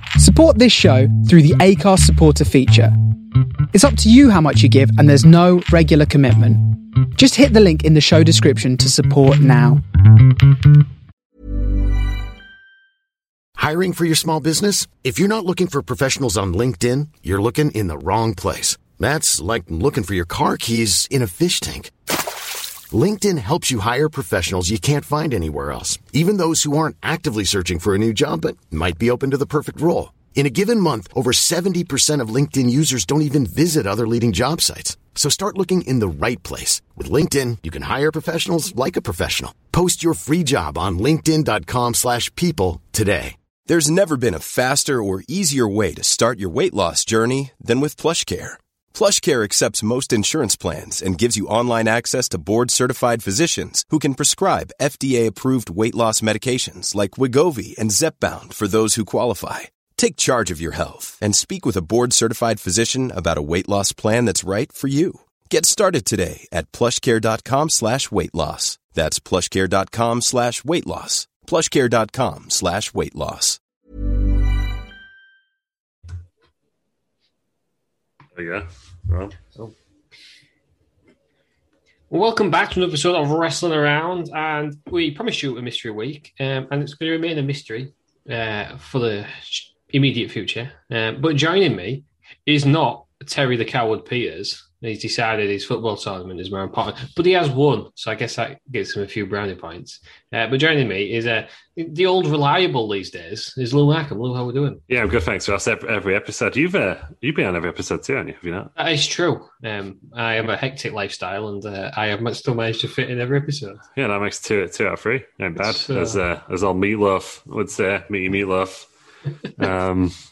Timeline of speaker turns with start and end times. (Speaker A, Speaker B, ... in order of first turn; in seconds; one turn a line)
Speaker A: 0.2-2.9
Speaker A: 3.7-9.8
Speaker B: 13.6-21.9
Speaker B: 22.9-43.4
Speaker C: 43.7-73.6
Speaker D: 78.4-79.4
Speaker E: 82.1-104.8
Speaker D: 104.9-108.7
Speaker E: 108.8-113.8
Speaker D: 114.0-118.9
Speaker E: 115.6-116.2
Speaker D: 119.6-120.2